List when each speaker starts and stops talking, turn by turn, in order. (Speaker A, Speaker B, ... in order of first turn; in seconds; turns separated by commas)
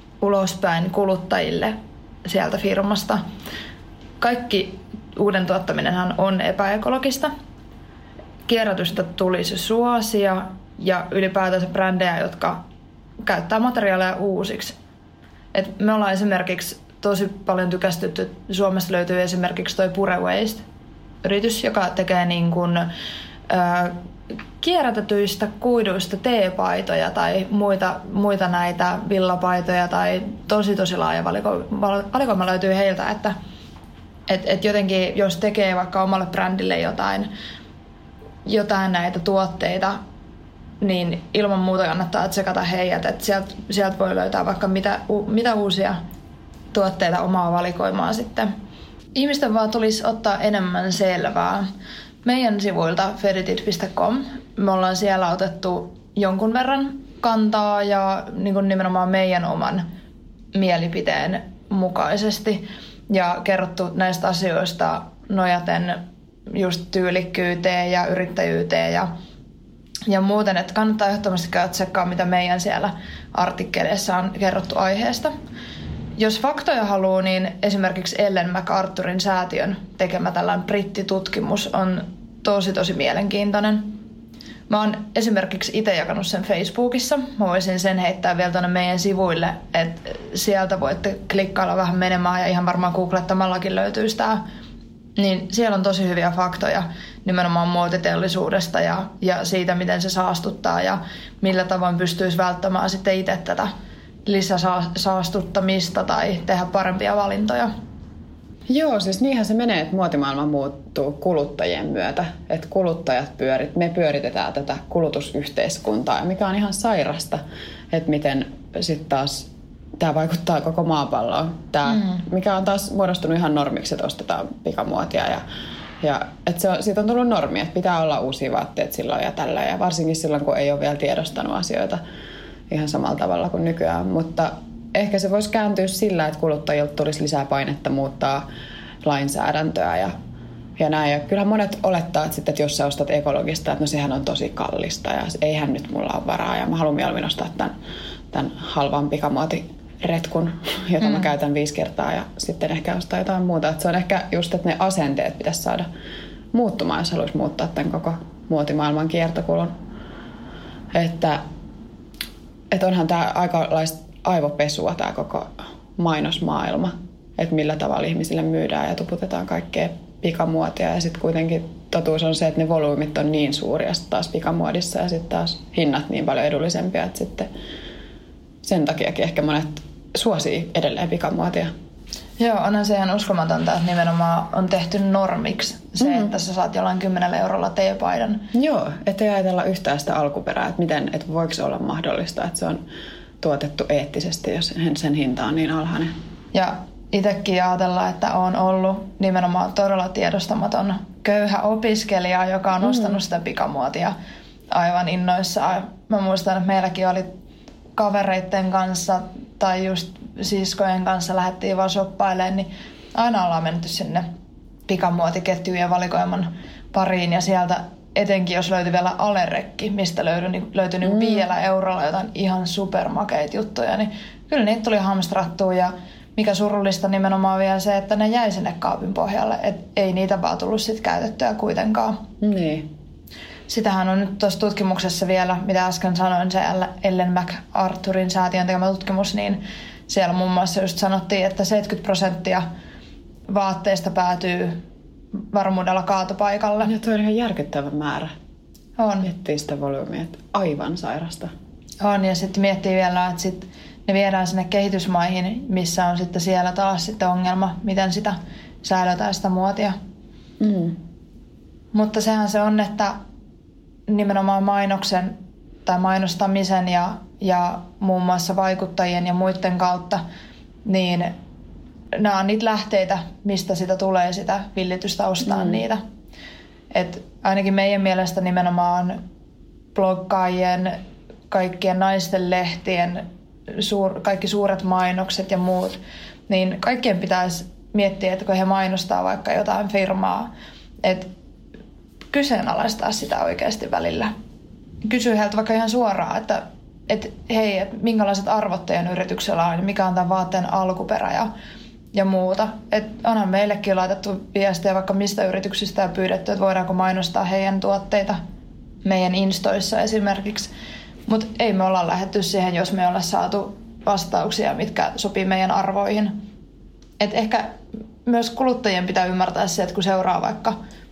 Speaker A: 0.2-3.2, Speaker A: 4.2-7.3, Speaker A: 8.5-12.6, Speaker A: 13.2-14.8, Speaker A: 15.5-20.6, Speaker A: 21.2-22.9, Speaker A: 23.5-24.0, Speaker A: 24.6-33.3, Speaker A: 34.3-37.3, Speaker A: 38.5-40.0, Speaker A: 40.8-46.0, Speaker A: 46.7-48.5, Speaker A: 49.1-51.7, Speaker A: 52.2-59.9, Speaker A: 60.5-69.1, Speaker A: 70.1-75.3, Speaker A: 76.2-84.0, Speaker A: 84.7-94.4, Speaker A: 95.2-103.7, Speaker A: 104.3-107.7, Speaker B: 108.7-125.5, Speaker A: 121.9-122.3, Speaker B: 126.0-132.0, Speaker B: 132.7-138.5, Speaker B: 139.0-140.1, Speaker B: 140.8-147.7, Speaker B: 148.3-155.9, Speaker A: 151.0-151.3, Speaker B: 156.5-159.7, Speaker B: 160.9-161.4, Speaker B: 162.7-177.5, Speaker B: 178.6-181.7, Speaker A: 182.4-188.5, Speaker B: 186.0-186.3, Speaker B: 188.5-192.8, Speaker B: 193.4-196.1, Speaker A: 196.5-204.2, Speaker B: 202.8-203.2, Speaker A: 204.7-207.3, Speaker A: 208.0-214.3, Speaker A: 214.9-232.2, Speaker B: 221.0-221.5, Speaker B: 232.4-232.9, Speaker A: 233.7-242.7, Speaker A: 243.5-244.8, Speaker A: 245.5-246.9, Speaker B: 246.8-248.3, Speaker A: 249.0-249.3, Speaker B: 249.2-251.5, Speaker A: 252.0-260.0, Speaker B: 260.6-261.0, Speaker A: 261.9-263.2, Speaker A: 264.1-270.2, Speaker A: 270.9-271.3, Speaker A: 272.1-276.0, Speaker B: 275.4-275.8, Speaker A: 276.9-279.2, Speaker A: 279.9-281.0, Speaker A: 281.5-290.5, Speaker A: 291.0-291.3, Speaker A: 292.3-294.3, Speaker A: 295.1-301.5, Speaker A: 302.1-308.4, Speaker A: 309.1-310.7, Speaker A: 311.3-316.4, Speaker A: 317.2-320.8